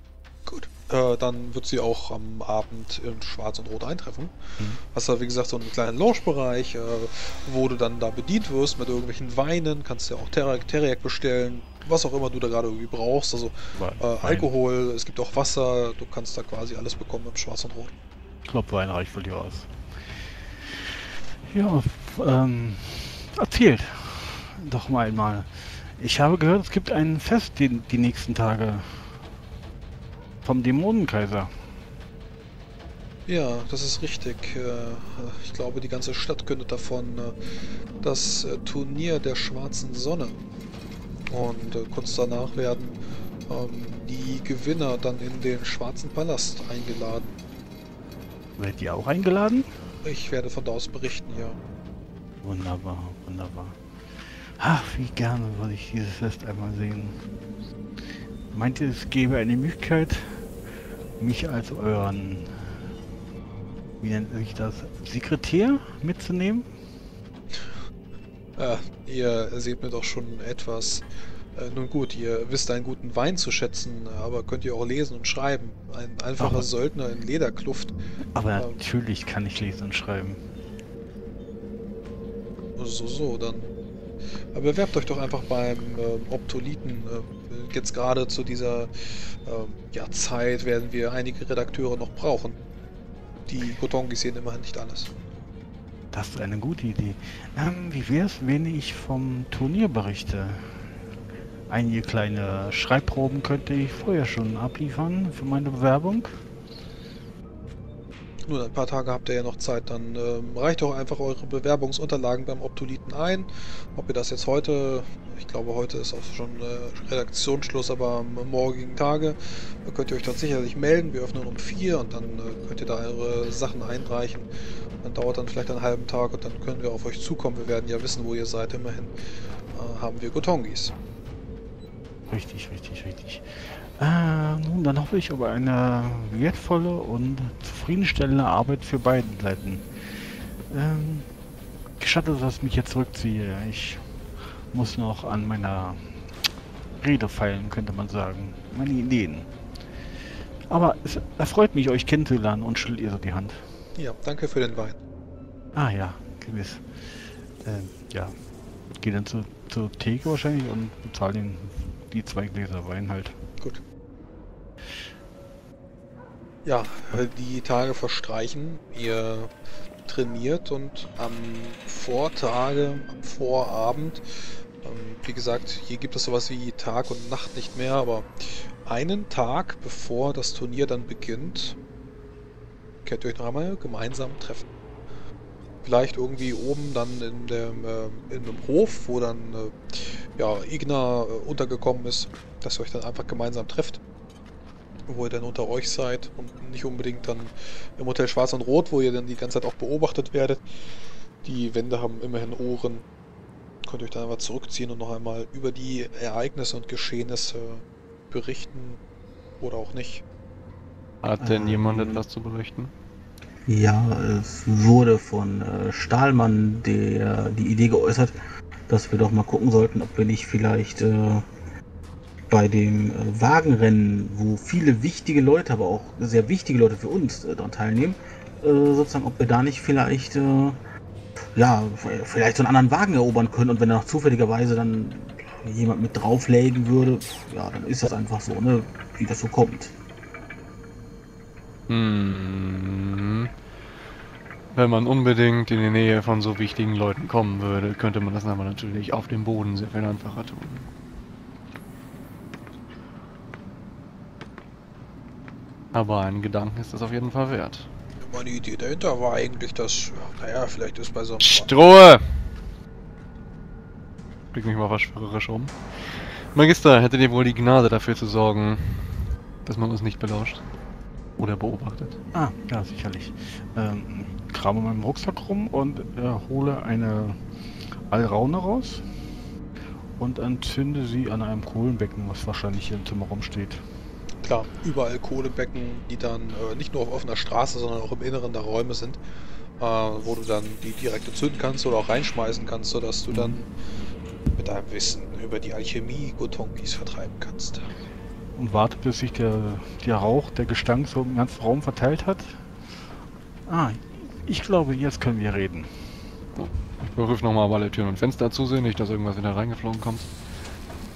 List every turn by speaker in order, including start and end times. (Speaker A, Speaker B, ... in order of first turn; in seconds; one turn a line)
Speaker A: 0.5-17.9
Speaker B: 13.7-14.5
Speaker B: 18.4-19.7
Speaker B: 21.4-29.1
Speaker B: 30.4-31.6
Speaker A: 33.2-37.3
Speaker A: 38.0-40.4
Speaker A: 41.3-42.9
Speaker A: 43.5-47.3
Speaker B: 48.6-49.7
Speaker A: 50.0-51.5
Speaker B: 52.4-53.8
Speaker B: 54.5-57.2
Speaker B: 58.5-60.4
Speaker B: 61.2-62.7
Speaker B: 64.0-66.7
Speaker A: 68.6-77.9
Speaker B: 76.4-76.7
Speaker B: 78.3-80.4
Speaker A: 82.8-83.7
Speaker A: 84.5-92.5
Speaker A: 93.5-95.1
Speaker B: 96.1-100.8
Speaker B: 101.7-106.3
Speaker A: 108.5-124.5
Speaker A: 125.0-129.1
Speaker A: 129.7-130.9
Speaker B: 132.3-139.9
Speaker B: 140.7-141.3
Speaker B: 142.0-144.0
Speaker B: 144.7-146.0
Speaker B: 147.0-149.5
Speaker B: 150.7-153.6
Speaker A: 153.9-155.0
Speaker B: 155.7-157.1
Speaker B: 157.6-158.3
Speaker B: 159.0-163.4
Speaker A: 166.6-169.5
Speaker A: 170.0-174.2
Speaker A: 174.8-181.8
Speaker A: 183.0-184.7
Speaker A: 185.8-194.0
Speaker A: 195.1-200.6
Speaker A: 201.4-203.0
Speaker A: 203.8-209.0
Speaker A: 209.6-210.2
Speaker C: 211.2-212.9
Speaker D: 211.4-212.2
Speaker D: 213.7-218.3
Speaker D: 218.9-221.4
Speaker D: 222.5-230.8
Speaker D: 231.6-239.9
Speaker C: 241.9-243.5
Speaker C: 244.7-250.8
Speaker C: 255.9-257.9
Speaker A: 258.2-261.7
Speaker C: 261.4-262.3
Speaker C: 264.5-270.6
Speaker C: 271.4-272.2
Speaker B: 272.3-277.4
Speaker B: 278.1-279.0
Speaker B: 280.2-283.8
Speaker A: 284.4-289.2
Speaker A: 289.8-293.7
Speaker A: 294.6-297.9
Speaker B: 298.5-302.6
Speaker B: 303.6-305.9
Speaker C: 306.6-310.3